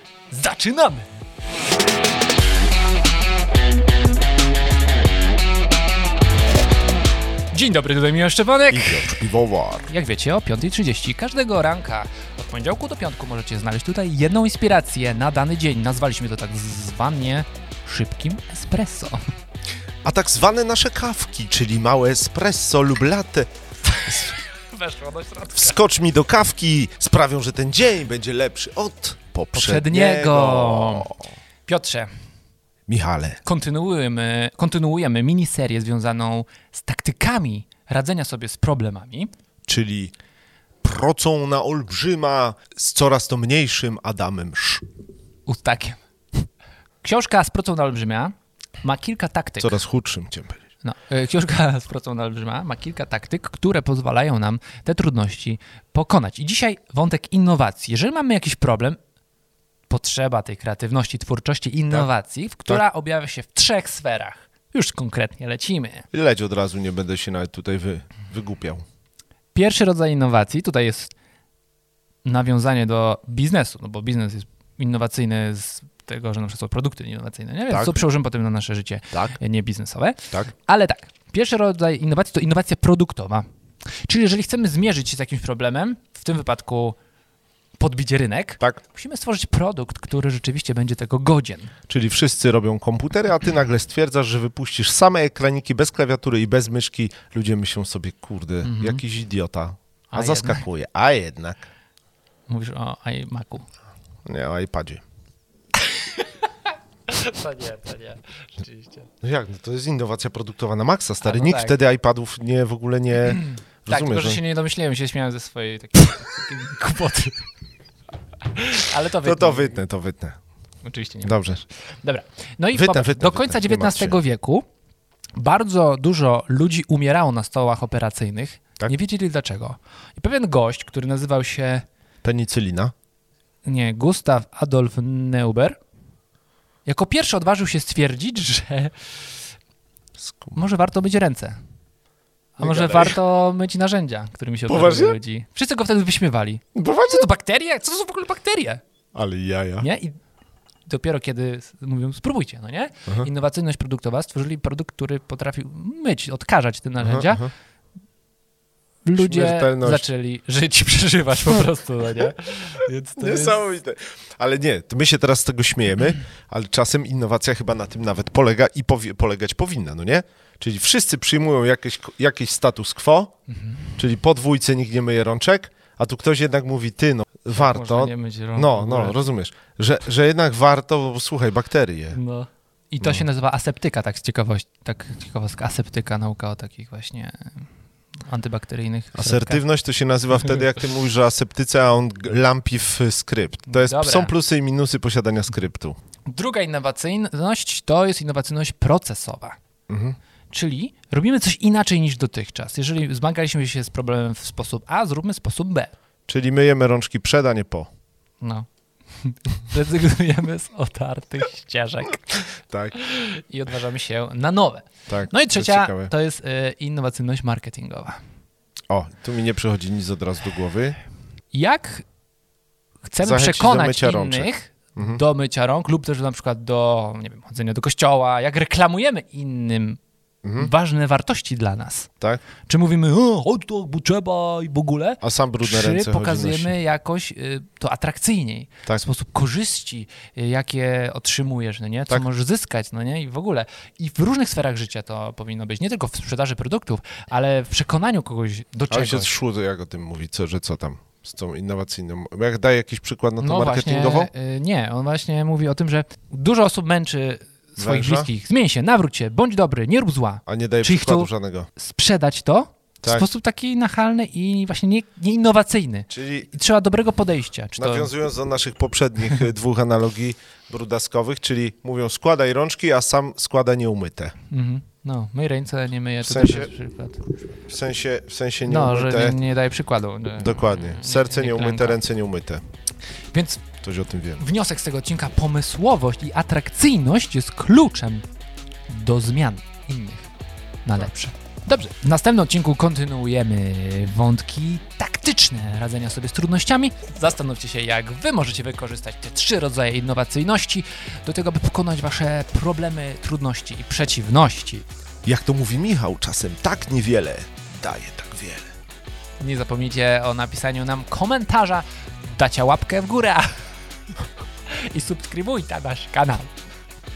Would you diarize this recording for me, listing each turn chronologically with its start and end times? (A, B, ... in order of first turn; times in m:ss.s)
0:00.3-0:01.1 A
0:07.5-0:09.1 A
0:08.7-0:09.9 B
0:09.9-0:19.2 A
0:20.0-0:23.5 B
0:24.0-0:25.8 A
0:24.0-0:24.4 B
0:25.5-0:31.3 B
0:29.5-0:31.1 A
0:31.7-0:32.1 A
0:32.9-0:33.4 B
0:33.4-0:39.3 A
0:39.7-0:40.1 B
0:40.8-0:44.8 B
0:45.5-0:46.0 A
0:47.0-0:49.8 A
0:49.6-0:50.6 B
0:50.8-0:59.0 A
0:59.9-1:06.1 A
1:06.1-1:08.8 B
1:09.5-1:11.1 A
1:12.2-1:23.4 A
1:17.7-1:18.0 B
1:19.1-1:19.4 B
1:24.0-1:27.0 A
1:27.8-1:31.7 A
1:31.9-1:41.6 B
1:38.6-1:39.0 A
1:40.1-1:40.6 A
1:42.5-1:43.7 A
1:44.3-1:45.0 B
1:45.8-1:46.3 A
1:47.1-1:49.1 A
1:49.2-1:54.4 B
1:51.2-1:51.8 A
1:53.3-1:57.4 A
1:58.4-1:59.8 A
1:59.2-2:00.4 B
2:00.8-2:01.4 A
2:01.2-2:01.6 B
2:02.0-2:04.6 A
2:02.7-2:04.2 B
2:05.4-2:11.9 A
2:12.2-2:12.9 B
2:13.6-2:15.8 A
2:16.9-2:19.2 A
2:20.2-2:20.6 B
2:20.6-2:21.6 A
2:22.6-2:28.8 A
2:22.6-2:23.2 B
2:24.7-2:25.2 B
2:26.8-2:27.3 B
2:29.1-2:29.9 B
2:29.8-2:30.2 A
2:30.9-2:37.5 A
2:37.0-2:37.5 B
2:39.0-2:43.6 A
2:39.2-2:40.0 B
2:43.2-2:53.3 B
2:53.5-2:53.8 A
2:54.0-3:02.2 B
2:57.5-2:59.2 A
3:02.1-3:07.7 A
3:03.0-3:03.3 B
3:08.3-3:09.6 A
3:09.2-3:16.0 B
3:13.7-3:14.3 A
3:16.3-3:19.6 A
3:19.9-3:20.2 B
3:20.5-3:25.9 A
3:26.3-3:27.9 B
3:28.4-3:28.7 A
3:29.2-3:32.5 A
3:32.7-3:33.0 B
3:33.0-3:38.2 A
3:35.1-3:36.1 B
3:38.9-3:41.0 B
3:41.5-3:42.0 A
3:43.1-3:50.0 A
3:43.2-3:45.2 B
3:50.4-3:50.7 B
3:50.6-3:52.1 A
3:52.7-4:09.3 A
3:55.2-3:56.7 B
4:08.9-4:14.3 B
4:13.4-4:28.1 A
4:17.8-4:18.3 B
4:20.5-4:21.7 B
4:23.0-4:23.3 B
4:26.1-4:26.5 B
4:27.8-4:34.3 B
4:34.5-4:37.2 A
4:36.2-4:36.7 B
4:37.7-4:39.4 B
4:38.6-4:42.0 A
4:40.4-4:42.6 B
4:43.3-4:43.6 A
4:43.8-4:44.4 B
4:44.4-4:48.2 A
4:48.9-4:50.3 A
4:50.8-5:04.9 A
5:05.2-5:08.7 B
5:09.4-5:13.6 A
5:14.7-5:16.5 A